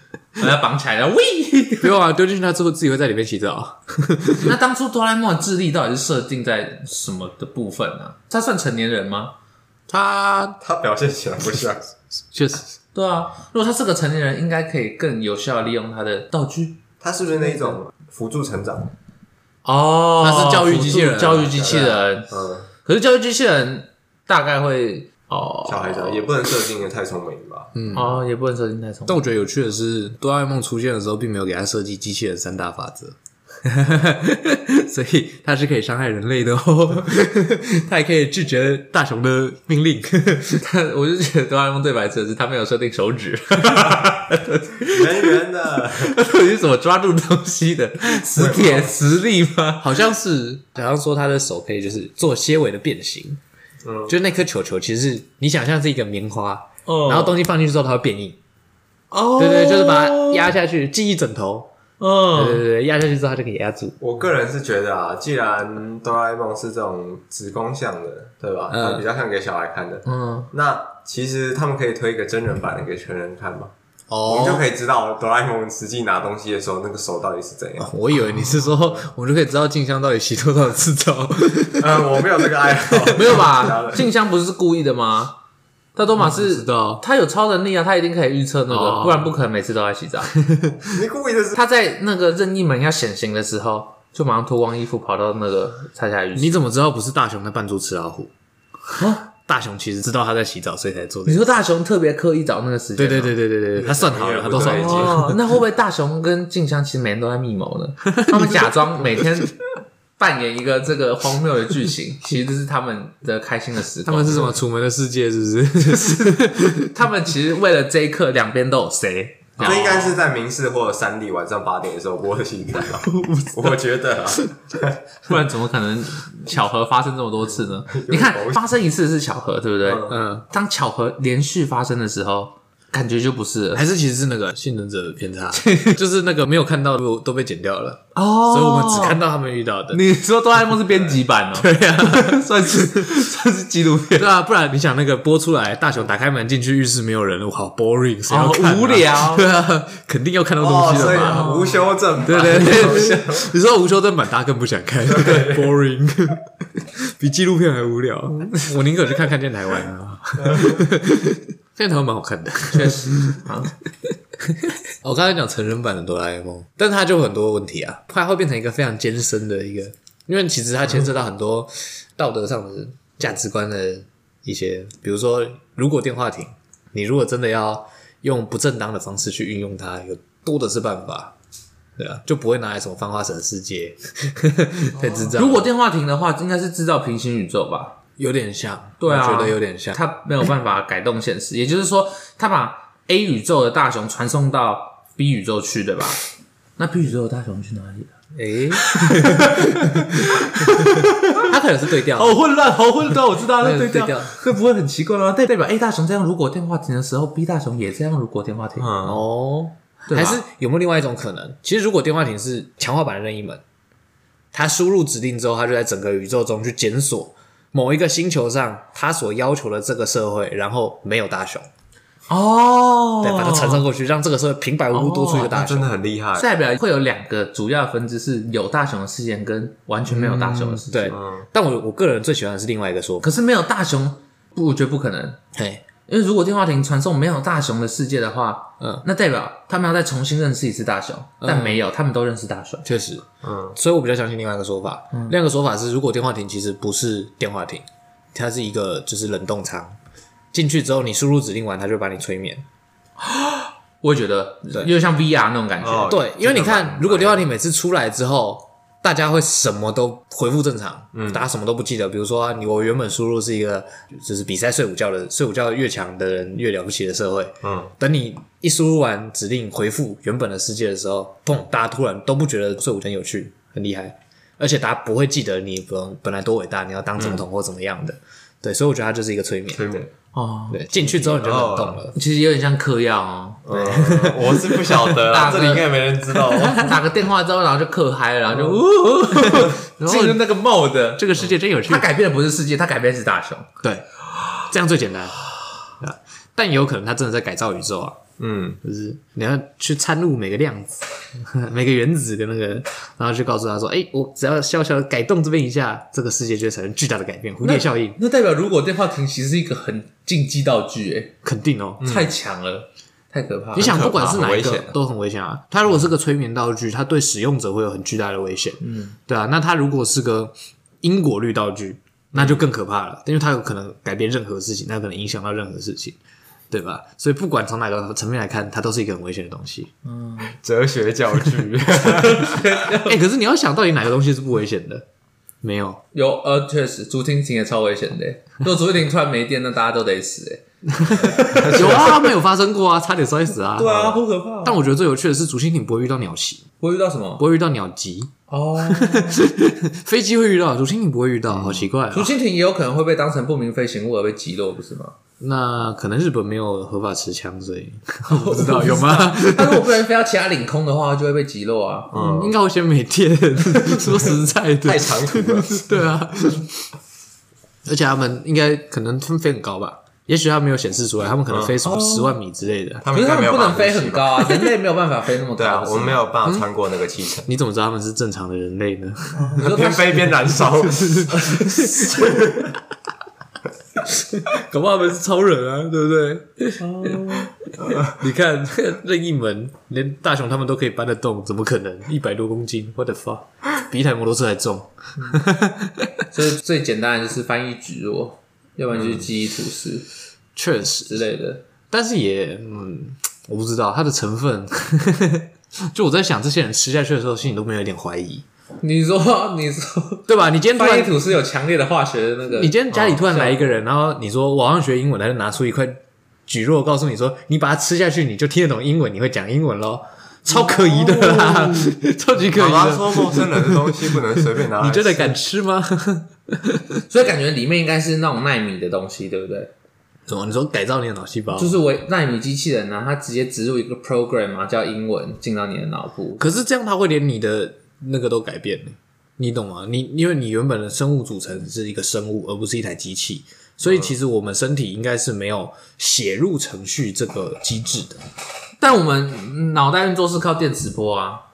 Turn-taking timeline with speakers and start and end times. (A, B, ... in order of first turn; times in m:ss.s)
0:00.4-0:01.9 A
0:01.8-0:04.6 B
0:04.4-0:09.3 A
0:09.9-0:10.6 B
0:10.6-0:11.9 C
0:12.3-0:12.7 B
0:12.9-0:16.8 A
0:17.0-0:18.9 C
0:17.4-0:17.8 A
0:19.6-0:22.3 A
0:20.2-0:22.0 B
0:21.6-0:22.7 C
0:22.8-0:26.3 A
0:25.6-0:27.9 C
0:27.7-0:28.1 B
0:27.9-0:29.2 A
0:29.1-0:40.6 B
0:40.6-0:50.0 A
0:44.8-0:46.2 C
0:48.3-0:49.0 C
0:49.8-0:53.4 B
0:53.8-0:54.2 C
0:54.1-0:58.4 B
0:56.9-0:57.4 A
0:59.1-1:00.5 A
0:59.4-1:01.7 B
1:02.0-1:02.6 A
1:02.3-1:04.0 B
1:04.0-1:13.7 C
1:08.7-1:09.0 B
1:10.0-1:10.5 A
1:14.1-1:14.7 B
1:14.2-1:17.9 C
1:17.8-1:23.4 B
1:18.8-1:19.0 C
1:21.8-1:24.1 C
1:23.1-1:25.4 A
1:26.0-1:30.3 A
1:26.2-1:27.0 B
1:28.7-1:29.3 B
1:30.4-1:30.8 B
1:30.9-1:31.6 C
1:31.5-1:36.6 A
1:36.3-1:38.3 B
1:39.0-1:39.2 A
1:39.2-1:41.5 B
1:41.2-1:43.4 A
1:43.0-1:45.4 B
1:43.7-1:45.2 C
1:44.6-1:49.6 A
1:48.0-1:49.3 B
1:50.2-1:54.5 A
1:54.0-1:56.9 B
1:56.0-2:00.2 A
1:59.6-2:05.0 C
2:03.2-2:03.5 A
2:05.2-2:13.8 A
2:07.8-2:08.7 C
2:09.8-2:10.1 C
2:10.1-2:10.4 B
2:13.7-2:20.0 B
2:15.5-2:16.0 A
2:18.1-2:19.2 A
2:19.9-2:24.3 A
2:21.6-2:23.3 B
2:24.2-2:31.5 B
2:28.3-2:29.5 A
2:30.6-2:33.5 C
2:31.0-2:33.3 A
2:32.2-2:43.4 B
2:35.1-2:35.7 C
2:40.4-2:40.8 C
2:42.7-2:43.7 A
2:44.0-3:01.3 B
3:02.0-3:05.7 B
3:05.0-3:08.0 A
3:08.2-3:10.0 B
3:09.0-3:16.2 A
3:16.8-3:18.1 A
3:18.3-3:22.4 B
3:18.7-3:21.5 A
3:22.1-3:28.9 A
3:23.4-3:24.4 B
3:28.8-3:29.2 C
3:29.0-3:33.6 B
3:30.1-3:30.4 A
3:34.5-3:41.7 B
3:42.3-3:43.8 A
3:43.2-3:45.9 B
3:44.9-3:45.5 A
3:45.3-3:46.5 C
3:46.3-3:51.1 A
3:50.1-3:53.3 B
3:51.1-3:51.5 C
3:53.2-3:55.4 A
3:55.5-3:55.8 B
3:56.1-4:02.9 A
3:58.8-3:59.0 B
4:01.4-4:01.8 B
4:02.8-4:10.0 B
4:03.4-4:03.8 C
4:10.5-4:12.6 B
4:13.2-4:16.2 A
4:15.8-4:17.5 C
4:16.0-4:39.8 B
4:21.1-4:21.4 C
4:27.6-4:27.9 C
4:37.2-4:37.4 C
4:39.7-4:40.1 C
4:40.3-4:40.9 A
4:40.7-4:42.1 B
4:41.1-4:42.0 C
4:42.1-4:44.0 A
4:43.6-4:47.0 C
4:43.8-4:44.9 B
4:45.0-4:46.0 A
4:46.6-4:53.7 A
4:49.2-4:50.4 B
4:51.2-4:52.1 B
4:53.8-4:58.2 B
4:58.4-4:58.8 C
4:58.8-5:08.2 B
5:07.6-5:11.3 A
5:11.4-5:12.1 B
5:12.0-5:14.0 A
5:12.0-5:12.3 C
5:13.7-5:26.2 B
5:13.8-5:15.0 C
5:18.8-5:19.2 A
5:22.3-5:22.6 C
5:26.7-5:29.9 B
5:30.0-5:30.5 A
5:30.5-5:32.6 C
5:31.9-5:33.2 A
5:32.9-5:35.0 B
5:35.6-5:36.0 B
5:36.1-5:42.2 A
5:40.9-5:46.6 B
5:41.3-5:42.1 C
5:43.8-5:44.8 A
5:43.8-5:44.2 C
5:46.8-5:47.4 A
5:47.4-5:52.3 B
5:48.5-5:49.4 A
5:51.5-5:51.9 C
5:52.1-5:55.2 A
5:55.4-5:59.9 B
5:58.3-6:02.1 A
6:02.1-6:02.6 C
6:02.1-6:06.9 B
6:03.7-6:04.1 A
6:04.8-6:05.9 C
6:07.8-6:13.0 B
6:11.5-6:11.8 C
6:11.8-6:12.4 A
6:13.0-6:14.7 C
6:13.1-6:16.2 A
6:15.6-6:17.5 C
6:17.5-6:19.7 B
6:19.5-6:22.8 C
6:19.5-6:22.1 A
6:21.6-6:22.4 B
6:24.0-6:36.2 B
6:26.8-6:27.5 A
6:35.2-6:35.4 A
6:36.3-6:40.1 A
6:40.6-6:41.2 B
6:41.0-6:41.6 A
6:41.9-6:48.4 B
6:48.8-6:53.8 A
6:50.3-6:51.1 B
6:52.6-7:07.0 B
7:00.6-7:01.7 A
7:02.5-7:05.4 C
7:07.1-7:09.7 A
7:10.3-7:11.8 B
7:11.5-7:16.5 A
7:16.4-7:28.2 B
7:23.8-7:24.1 C
7:28.8-7:31.4 A